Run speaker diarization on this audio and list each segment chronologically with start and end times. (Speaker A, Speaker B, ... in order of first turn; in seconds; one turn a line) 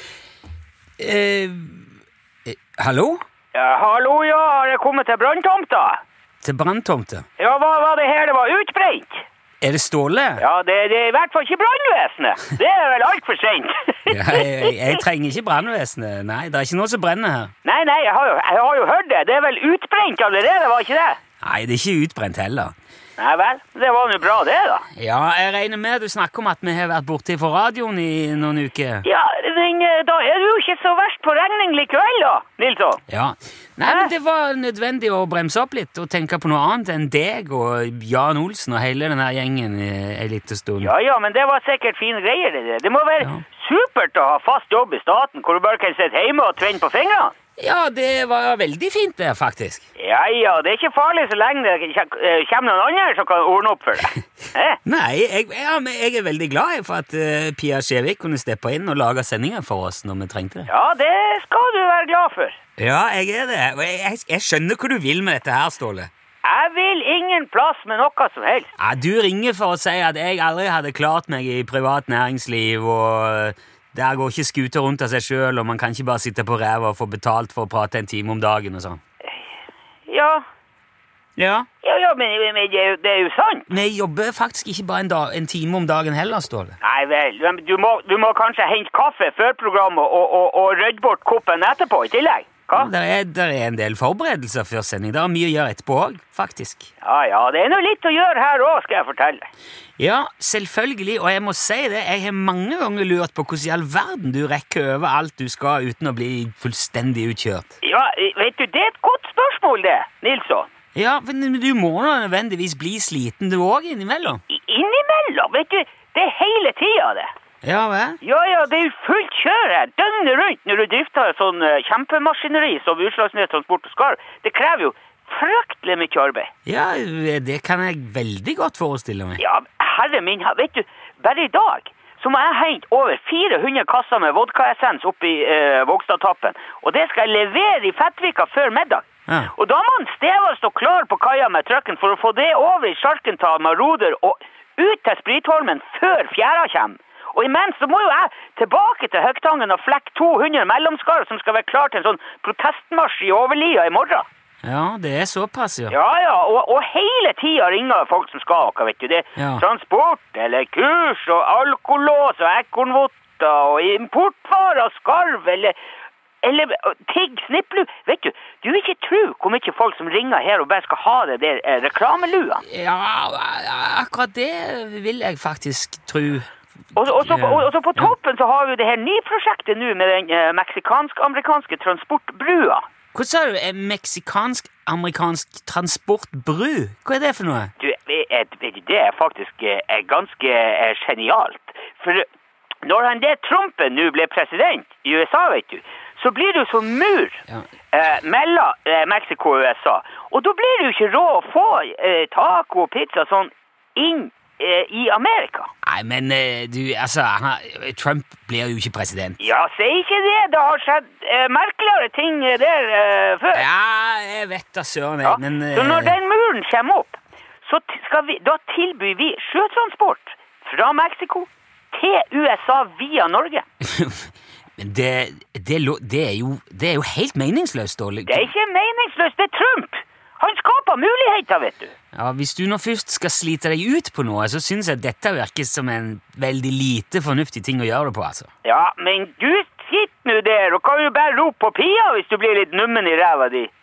Speaker A: 1.0-1.9
Speaker A: 2.5-3.2
Speaker B: 3.5-6.0
Speaker A: 6.4-7.2
Speaker B: 7.4-9.2
Speaker A: 9.6-10.4
Speaker B: 10.4-14.8
Speaker A: 14.1-17.5
Speaker B: 17.6-21.2
Speaker A: 21.4-22.7
Speaker B: 23.2-24.9
Speaker A: 24.9-29.1
Speaker B: 29.0-33.0
Speaker A: 33.1-40.9
Speaker B: 33.9-34.1
Speaker B: 40.8-47.3
Speaker A: 47.6-49.8
Speaker B: 50.0-54.8
Speaker A: 54.9-60.7
Speaker B: 60.7-62.6
Speaker A: 62.8-66.1
Speaker B: 66.4-68.7
Speaker A: 68.8-79.0
Speaker B: 80.1-80.4
Speaker A: 81.4-81.7
Speaker B: 81.8-83.7
Speaker A: 83.7-86.8
Speaker B: 86.8-92.9
Speaker A: 92.7-96.9
Speaker B: 97.0-99.5
Speaker A: 100.0-107.7
Speaker B: 107.8-110.7
Speaker A: 110.9-114.4
Speaker B: 114.5-117.3
Speaker A: 117.6-118.2
Speaker B: 118.2-126.5
Speaker A: 126.7-129.4
Speaker B: 129.4-154.2
Speaker A: 154.6-155.9
Speaker B: 155.9-165.8
Speaker A: 159.4-159.6
Speaker B: 166.4-172.6
Speaker A: 172.6-176.4
Speaker B: 176.9-182.8
Speaker A: 177.1-178.1
Speaker A: 183.1-187.7
Speaker B: 187.8-192.3
Speaker B: 192.8-197.4
Speaker B: 197.9-205.7
Speaker A: 205.8-209.4
Speaker B: 209.4-213.7
Speaker A: 213.5-216.2
Speaker B: 215.2-223.6
Speaker A: 223.8-228.5
Speaker B: 228.3-231.9
Speaker A: 232.1-238.5
Speaker B: 238.6-243.7